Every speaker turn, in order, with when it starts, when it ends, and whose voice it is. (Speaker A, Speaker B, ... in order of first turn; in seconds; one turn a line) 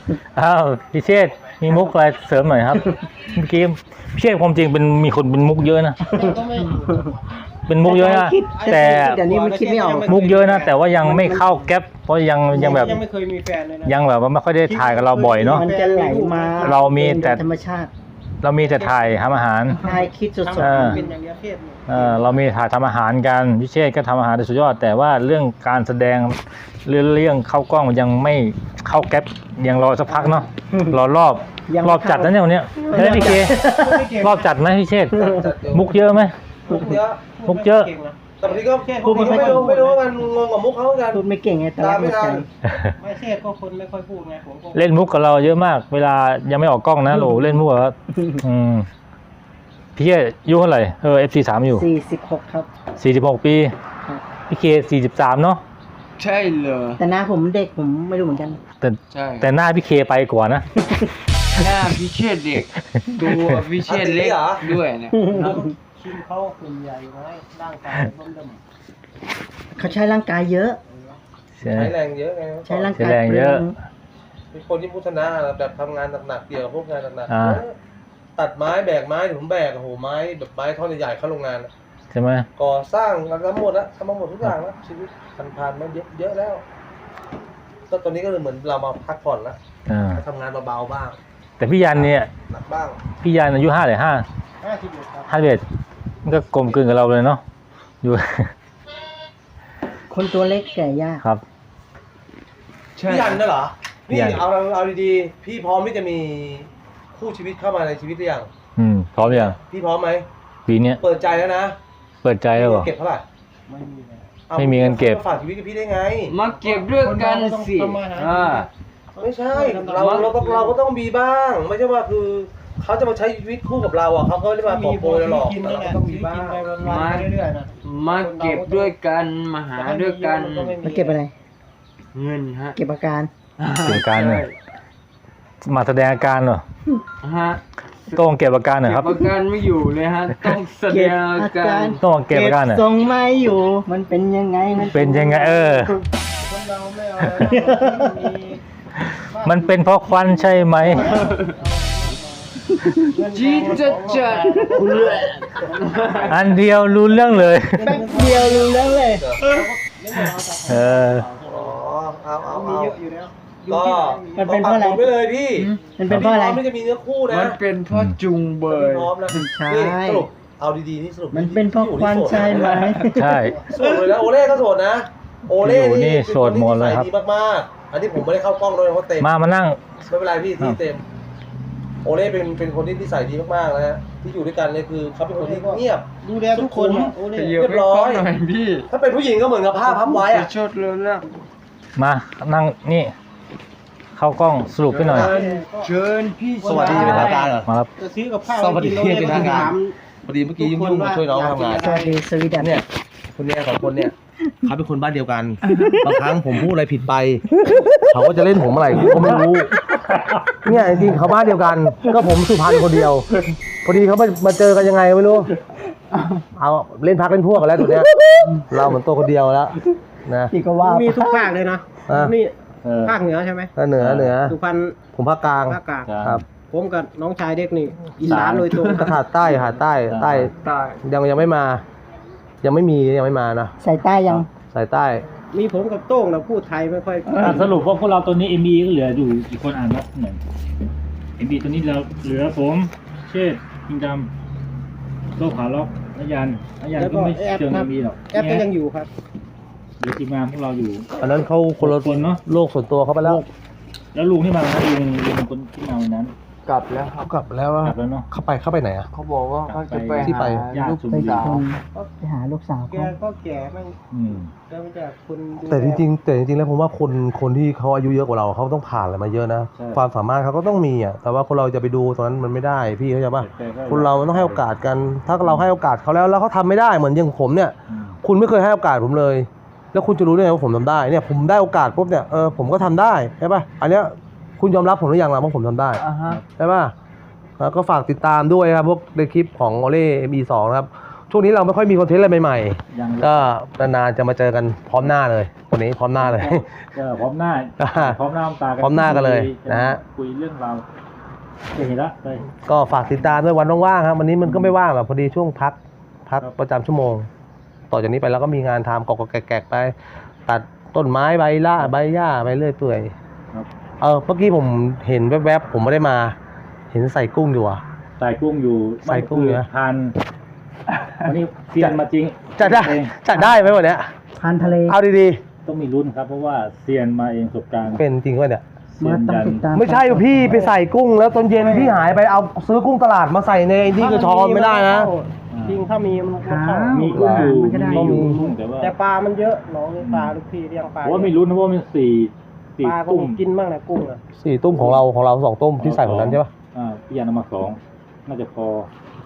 Speaker A: 0.3-6.1
Speaker B: 6.1-7.2
Speaker C: 6.1-6.4
Speaker A: 7.7-9.3
Speaker C: 7.8-10.2
Speaker B: 7.8-11.7
Speaker A: 10.0-13.0
Speaker B: 12.5-14.0
Speaker C: 12.6-13.0
Speaker A: 13.9-15.7
Speaker B: 14.6-16.9
Speaker C: 15.5-17.9
Speaker A: 16.6-17.5
Speaker A: 18.4-19.8
Speaker B: 18.6-22.4
Speaker C: 19.7-21.1
Speaker A: 20.6-21.0
Speaker A: 21.9-36.4
Speaker C: 30.2-31.0
Speaker C: 31.7-34.1
Speaker B: 33.0-34.5
Speaker C: 35.1-35.5
Speaker D: 35.2-36.0
Speaker B: 36.7-40.1
Speaker D: 36.7-37.3
Speaker A: 37.5-37.9
Speaker D: 38.4-41.2
Speaker C: 39.1-39.6
Speaker C: 41.1-42.5
Speaker D: 41.8-42.5
Speaker A: 42.7-42.9
Speaker B: 43.0-45.0
Speaker A: 44.8-48.9
Speaker C: 48.1-48.4
Speaker A: 50.0-51.9
Speaker C: 51.7-52.7
Speaker A: 53.0-53.7
Speaker A: 54.5-55.6
Speaker E: 56.2-57.0
Speaker C: 57.0-58.6
Speaker A: 58.8-60.7
Speaker E: 59.1-59.5
Speaker E: 61.5-65.3
Speaker A: 63.0-63.5
Speaker D: 63.9-64.7
Speaker C: 65.1-65.7
Speaker B: 65.2-68.6
Speaker C: 69.7-70.8
Speaker B: 70.9-71.2
Speaker A: 71.6-71.9
Speaker D: 71.6-72.9
Speaker C: 72.7-73.8
Speaker A: 72.9-73.7
Speaker D: 74.5-77.8
Speaker A: 77.3-77.6
Speaker D: 78.4-81.7
Speaker A: 82.1-82.5
Speaker D: 82.6-86.6
Speaker D: 87.9-89.6
Speaker A: 89.9-90.2
Speaker D: 90.1-91.2
Speaker A: 91.6-92.3
Speaker D: 91.9-93.0
Speaker A: 93.2-94.3
Speaker B: 94.6-95.3
Speaker A: 95.3-95.7
Speaker A: 96.2-97.4
Speaker A: 98.0-98.5
Speaker C: 100.1-101.2
Speaker E: 103.0-103.4
Speaker D: 103.0-108.5
Speaker A: 104.1-104.4
Speaker A: 108.8-109.6
Speaker D: 109.2-110.3
Speaker A: 110.7-111.0
Speaker D: 111.0-111.8
Speaker A: 112.2-112.9
Speaker D: 112.6-113.2
Speaker B: 113.7-114.4
Speaker D: 114.5-116.3
Speaker A: 114.5-115.2
Speaker E: 116.3-118.7
Speaker B: 116.5-120.8
Speaker D: 119.2-126.6
Speaker E: 120.0-120.5
Speaker B: 124.6-128.9
Speaker E: 126.8-130.8
Speaker B: 129.7-131.2
Speaker C: 130.8-131.3
Speaker E: 132.1-132.8
Speaker C: 132.8-133.3
Speaker E: 133.6-134.6
Speaker A: 133.8-134.5
Speaker A: 135.6-136.6
Speaker E: 137.2-138.2
Speaker A: 138.2-139.1
Speaker E: 138.8-142.0
Speaker C: 140.9-145.9
Speaker A: 142.0-142.8
Speaker A: 144.9-145.9
Speaker B: 146.4-148.6
Speaker A: 147.3-147.7
Speaker A: 149.0-151.1
Speaker B: 149.2-156.6
Speaker E: 150.9-151.4
Speaker E: 153.3-156.4
Speaker C: 154.7-155.5
Speaker A: 156.3-157.9
Speaker B: 157.8-164.5
Speaker C: 157.8-159.2
Speaker D: 158.3-159.4
Speaker A: 160.7-161.3
Speaker D: 161.4-162.9
Speaker D: 163.7-167.6
Speaker C: 164.4-165.1
Speaker E: 165.6-165.9
Speaker C: 166.0-166.6
Speaker E: 167.3-169.3
Speaker A: 167.9-168.2
Speaker D: 168.7-173.0
Speaker C: 169.3-170.3
Speaker C: 171.3-173.6
Speaker E: 172.3-173.2
Speaker A: 173.1-173.7
Speaker D: 173.6-179.3
Speaker A: 175.6-177.1
Speaker A: 179.2-179.9
Speaker D: 180.0-181.0
Speaker D: 182.0-188.3
Speaker B: 185.3-187.6
Speaker E: 187.3-188.9
Speaker D: 188.9-190.5
Speaker E: 189.8-191.3
Speaker A: 192.0-193.1
Speaker A: 194.2-195.4
Speaker E: 194.9-197.5
Speaker D: 195.0-195.3
Speaker B: 195.1-195.9
Speaker B: 196.6-200.0
Speaker D: 196.6-197.7
Speaker A: 197.7-197.9
Speaker D: 198.5-199.8
Speaker E: 199.2-199.7
Speaker D: 200.3-202.0
Speaker B: 200.6-202.2
Speaker C: 201.8-202.8
Speaker D: 202.6-207.5
Speaker D: 208.0-209.7
Speaker A: 210.1-210.6
Speaker D: 210.6-213.3
Speaker D: 213.8-215.5
Speaker E: 216.2-216.4
Speaker D: 216.6-218.1
Speaker D: 218.6-220.5
Speaker C: 220.5-221.5
Speaker B: 220.8-223.7
Speaker D: 222.1-222.3
Speaker A: 222.8-223.2
Speaker D: 223.8-224.6
Speaker A: 224.0-224.3
Speaker B: 224.4-225.0
Speaker D: 225.1-226.4
Speaker B: 225.7-229.2
Speaker A: 226.1-226.4
Speaker A: 228.2-228.7
Speaker E: 228.2-229.2
Speaker D: 228.8-230.5
Speaker A: 229.6-230.5
Speaker E: 230.6-231.0
Speaker D: 231.0-231.8
Speaker D: 232.6-233.7
Speaker C: 233.8-234.5
Speaker D: 234.7-235.2
Speaker B: 235.5-237.8
Speaker E: 237.3-237.7
Speaker A: 237.4-240.4
Speaker A: 241.4-244.3
Speaker A: 245.4-248.7
Speaker B: 246.9-249.1
Speaker A: 250.0-251.1
Speaker D: 251.2-253.4
Speaker A: 251.8-252.4
Speaker A: 254.1-256.3
Speaker E: 256.7-257.3
Speaker D: 257.2-259.1
Speaker A: 257.8-258.3
Speaker E: 259.1-261.6
Speaker A: 259.7-261.5
Speaker D: 260.2-260.7
Speaker C: 261.1-263.1
Speaker B: 262.9-264.0
Speaker A: 264.1-264.5
Speaker B: 264.7-266.0
Speaker D: 265.6-286.0
Speaker A: 269.8-270.0
Speaker A: 273.4-274.6
Speaker A: 275.4-275.7
Speaker A: 277.9-278.2
Speaker E: 286.0-286.4
Speaker D: 286.6-286.9
Speaker D: 287.6-296.9
Speaker A: 292.9-293.5
Speaker A: 296.2-300.9
Speaker D: 297.8-298.2
Speaker D: 298.8-300.0
Speaker A: 301.8-302.5
Speaker D: 302.6-307.3
Speaker A: 304.5-304.7
Speaker D: 307.9-309.9
Speaker D: 310.5-313.1
Speaker D: 314.0-316.4
Speaker D: 316.9-317.8
Speaker A: 318.2-320.1
Speaker D: 319.0-319.7
Speaker A: 321.2-323.1
Speaker D: 322.6-324.1
Speaker C: 323.3-323.6
Speaker C: 324.4-325.0
Speaker D: 324.9-325.4
Speaker A: 325.6-328.0
Speaker D: 328.0-328.6
Speaker A: 329.0-329.7
Speaker C: 329.0-330.7
Speaker D: 329.7-335.1
Speaker B: 331.7-332.0
Speaker B: 333.9-337.4
Speaker A: 335.5-335.8
Speaker C: 336.4-338.5
Speaker A: 336.9-338.9
Speaker D: 337.1-338.5
Speaker B: 338.8-341.3
Speaker A: 340.0-340.3
Speaker A: 341.0-343.4
Speaker B: 342.8-344.2
Speaker D: 344.4-346.5
Speaker A: 345.8-348.9